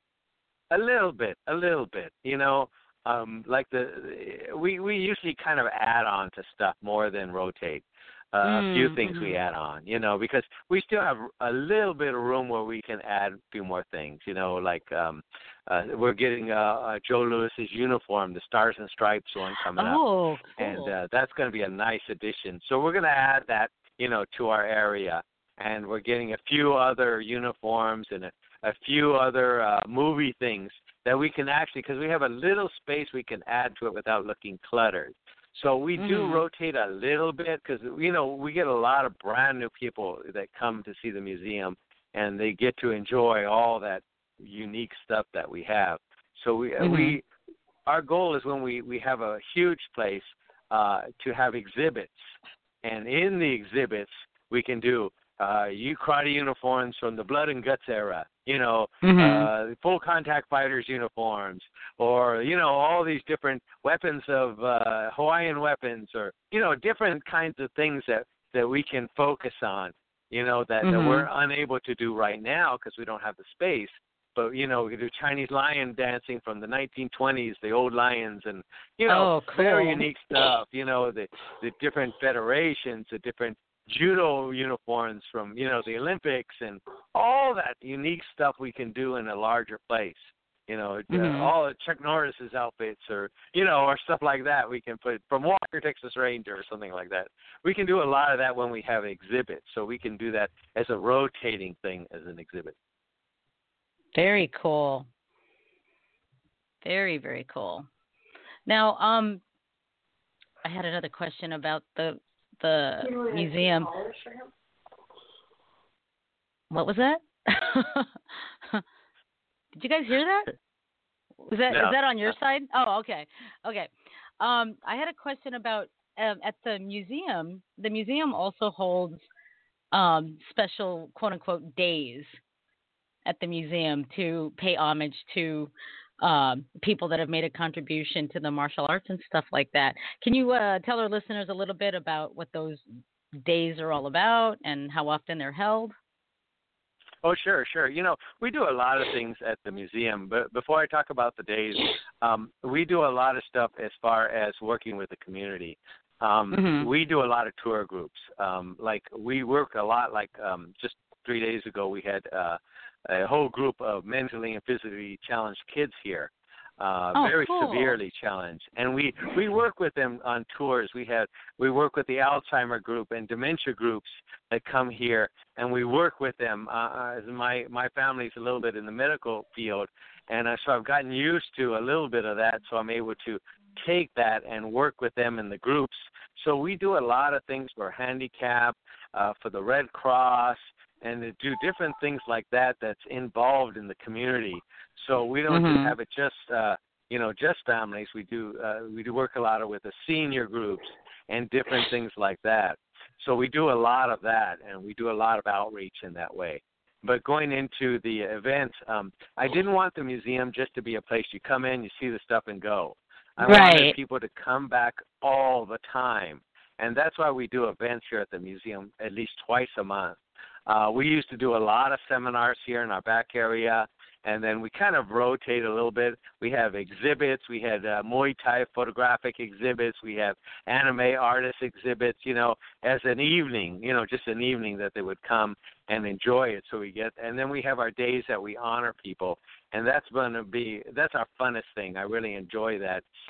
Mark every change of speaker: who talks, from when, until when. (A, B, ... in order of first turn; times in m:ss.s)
0:00.7-0:20.0 A
0:08.4-0:09.4 B
0:19.8-0:20.9 B
0:20.6-0:47.2 A
0:36.0-0:36.4 B
0:46.8-0:47.2 B
0:47.9-0:52.2 A
0:52.8-1:42.8 A
0:59.0-0:59.5 B
1:10.8-1:11.3 B
1:19.1-1:20.1 B
1:31.1-1:31.5 B
1:44.2-1:45.1 B
1:46.8-1:47.9 B
1:48.7-1:49.4 B
1:50.6-1:54.1 B
1:56.7-1:58.8 B
1:59.8-2:00.5 B
2:01.4-2:09.2 B
2:01.7-2:02.4 A
2:09.9-2:12.4 B
2:13.3-2:22.8 B
2:23.4-2:25.9 B
2:27.2-4:03.0 A
2:36.5-2:36.9 B
2:47.2-2:48.0 B
3:15.5-3:16.0 B
3:33.4-3:34.0 B